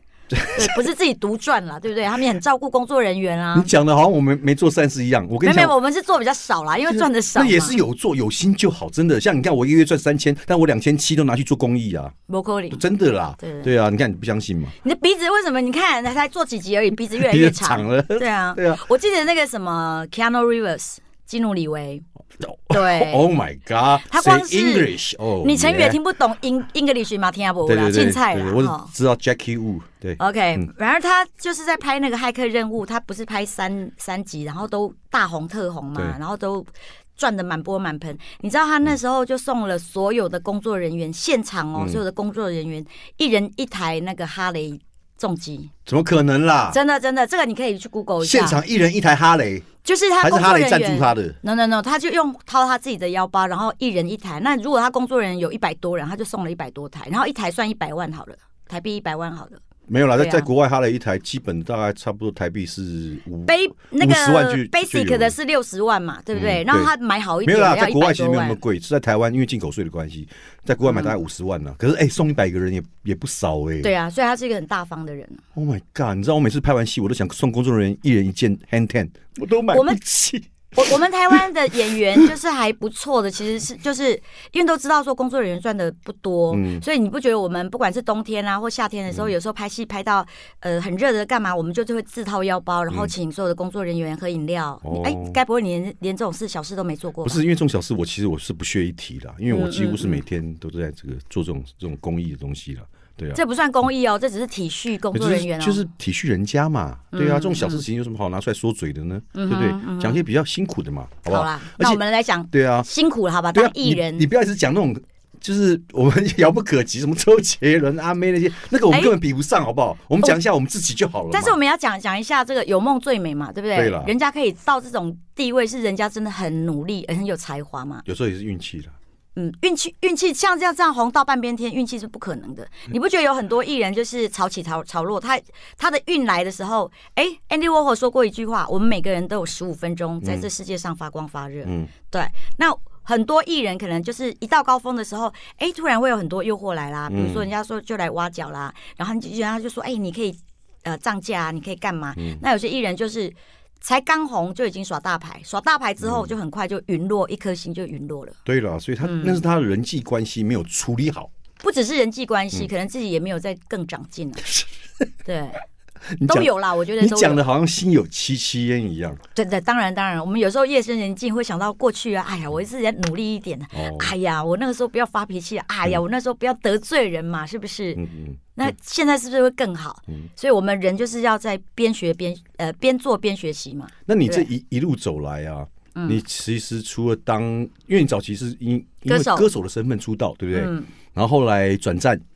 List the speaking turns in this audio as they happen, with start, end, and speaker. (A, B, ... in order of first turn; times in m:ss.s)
0:00.3-0:00.9 A
0:00.5-0:03.7 B
0:03.5-0:05.8 A
0:05.4-0:07.8 B
0:06.8-0:12.1 A
0:12.3-0:12.8 B
0:12.7-0:14.7 A
0:13.4-0:13.7 B
0:14.8-0:22.0 B
0:17.1-0:18.8 A
0:22.4-0:26.0 A
0:22.7-0:23.2 B
0:24.1-0:28.9 B
0:27.6-0:30.6 A
0:30.2-0:45.7 B
0:41.7-0:42.0 A
0:45.8-0:46.8 A
0:46.7-0:48.6 B
0:48.2-0:49.6 A
0:49.8-0:59.6 B
0:50.2-0:51.4 A
0:59.9-1:05.4 A
1:00.2-1:00.5 B
1:03.4-1:08.6 B
1:06.3-1:06.9 A
1:07.4-1:13.9 A
1:10.8-1:11.1 B
1:13.8-1:15.4 B
1:15.5-1:22.3 A
1:19.7-1:20.0 B
1:20.8-1:37.4 B
1:26.5-1:26.8 A
1:34.8-1:35.4 A
1:37.2-1:43.4 A
1:39.5-1:40.2 B
1:43.3-1:45.8 B
1:45.1-1:52.9 A
1:47.1-1:47.8 B
1:49.3-1:50.2 B
1:51.3-1:54.3 B
1:53.5-2:01.6 A
1:58.9-1:59.2 B
2:01.3-2:08.0 B
2:03.7-2:04.1 A
2:08.0-2:09.0 A
2:09.4-2:38.4 B
2:20.2-2:20.5 A
2:21.6-2:21.9 A
2:27.1-2:27.5 A
2:32.2-2:32.4 A
2:36.0-2:36.3 A
2:38.4-2:41.3 A
2:39.0-2:39.4 B
2:41.6-2:44.5 B
2:45.2-2:45.6 B
2:46.1-2:49.2 A
2:46.2-2:47.4 B
2:49.3-2:58.0 B
2:53.7-2:54.1 A
2:58.0-2:58.7 A
2:58.6-3:04.5 B
3:04.1-3:12.2 A
3:05.9-3:06.2 B
3:09.1-3:09.5 B
3:10.5-3:10.9 B